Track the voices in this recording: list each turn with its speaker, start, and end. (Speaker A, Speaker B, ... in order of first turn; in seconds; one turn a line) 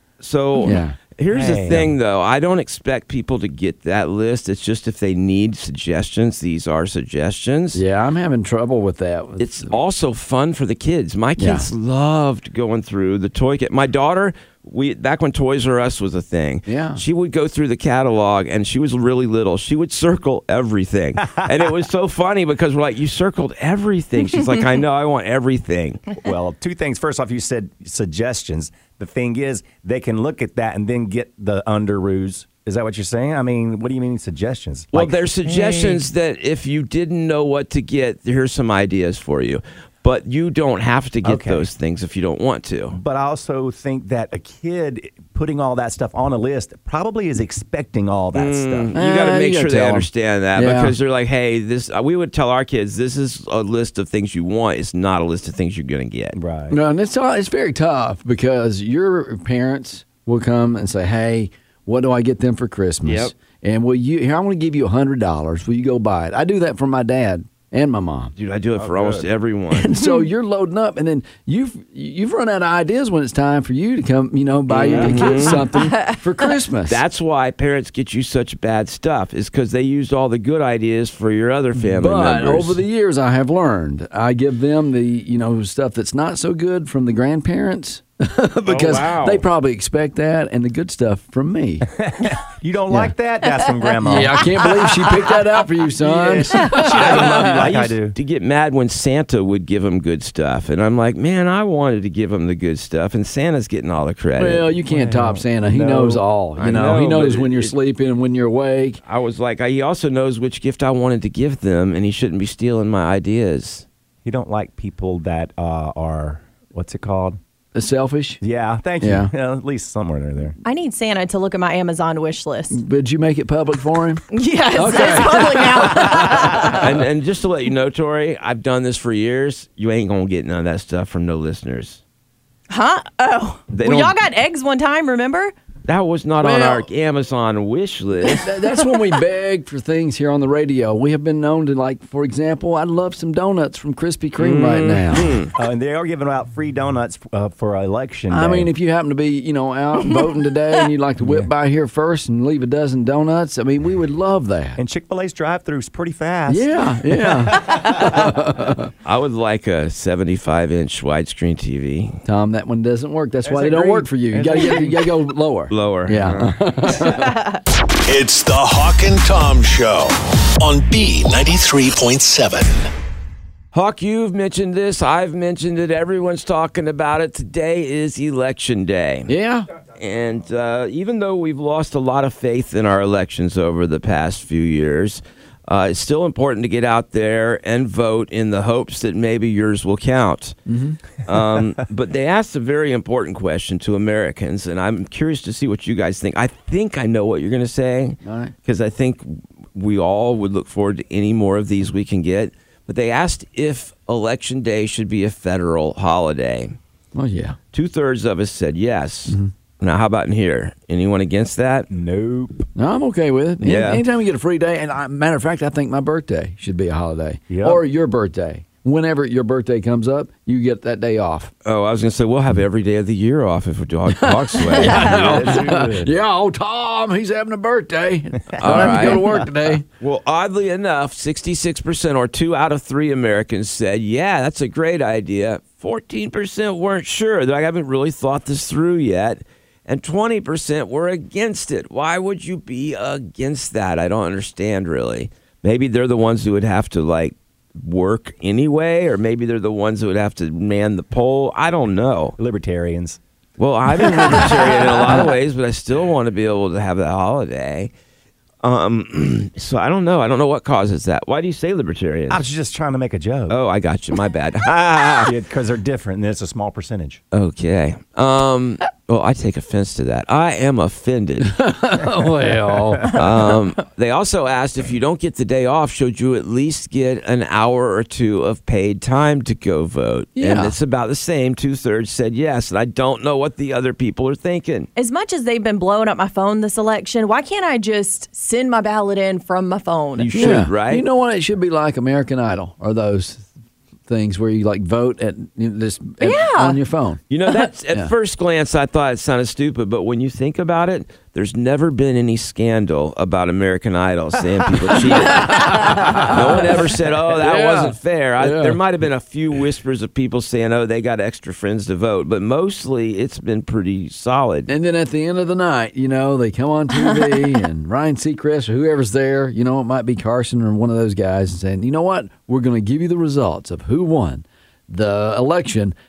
Speaker A: 0.2-7.8
Speaker B: 0.6-1.0
Speaker C: 1.3-1.9
Speaker B: 7.7-9.8
Speaker A: 9.4-26.0
Speaker B: 11.4-11.7
Speaker B: 16.7-17.0
Speaker C: 26.2-35.5
Speaker A: 34.9-43.0
Speaker C: 41.2-41.7
Speaker C: 42.9-49.0
Speaker A: 48.3-56.4
Speaker B: 48.9-51.0
Speaker C: 56.3-56.8
Speaker B: 56.7-68.3
Speaker A: 63.0-63.3
Speaker A: 68.4-69.9
Speaker C: 68.8-69.3
Speaker B: 69.7-77.0
Speaker D: 70.0-70.3
Speaker A: 74.7-75.7
Speaker D: 75.3-76.2
Speaker A: 76.9-82.8
Speaker B: 81.8-91.9
Speaker A: 88.7-89.5
Speaker C: 92.0-94.7
Speaker B: 94.0-97.4
Speaker C: 96.0-98.2
Speaker A: 96.5-104.7
Speaker B: 104.4-109.0
Speaker C: 104.9-107.0
Speaker A: 106.6-107.7
Speaker A: 109.0-113.9
Speaker C: 114.2-117.4
Speaker B: 117.8-118.4
Speaker C: 118.4-120.6
Speaker B: 119.0-119.3
Speaker D: 120.6-122.8
Speaker B: 122.7-124.2
Speaker D: 124.3-126.8
Speaker B: 124.8-126.8
Speaker A: 126.7-132.0
Speaker D: 132.7-135.5
Speaker A: 133.7-134.2
Speaker A: 135.9-138.5
Speaker B: 136.4-136.9
Speaker B: 138.2-145.4
Speaker A: 144.4-145.5
Speaker C: 145.6-148.7
Speaker B: 148.3-154.8
Speaker C: 151.2-151.5
Speaker C: 154.8-157.8
Speaker B: 156.5-158.9
Speaker D: 157.6-157.9
Speaker A: 159.1-162.2
Speaker B: 162.2-167.3
Speaker C: 163.4-165.0
Speaker A: 165.7-166.6
Speaker D: 167.1-167.6
Speaker E: 168.1-172.9
Speaker A: 173.7-179.3
Speaker B: 179.3-179.7
Speaker A: 179.9-190.6
Speaker B: 190.7-191.0
Speaker A: 191.2-206.8
Speaker B: 198.2-198.5
Speaker B: 207.1-207.6
Speaker A: 207.7-211.9
Speaker C: 211.9-212.7
Speaker B: 212.8-221.5
Speaker A: 213.6-214.0
Speaker C: 217.5-217.8
Speaker A: 221.7-225.9
Speaker B: 224.1-229.8
Speaker C: 224.8-226.1
Speaker C: 228.5-229.6
Speaker A: 228.6-229.4
Speaker A: 230.0-252.3
Speaker C: 252.4-253.2
Speaker A: 253.6-257.9
Speaker A: 258.6-262.5
Speaker C: 262.3-263.6
Speaker A: 263.5-265.3
Speaker C: 265.2-267.2
Speaker A: 267.3-271.6
Speaker B: 271.4-273.1
Speaker C: 272.6-273.2
Speaker A: 273.1-284.9
Speaker B: 280.4-280.8
Speaker D: 285.0-290.6
Speaker A: 290.1-291.1
Speaker B: 290.3-293.5
Speaker B: 294.1-297.2
Speaker D: 296.2-296.8
Speaker A: 297.3-314.7
Speaker B: 305.1-308.8
Speaker B: 314.7-325.9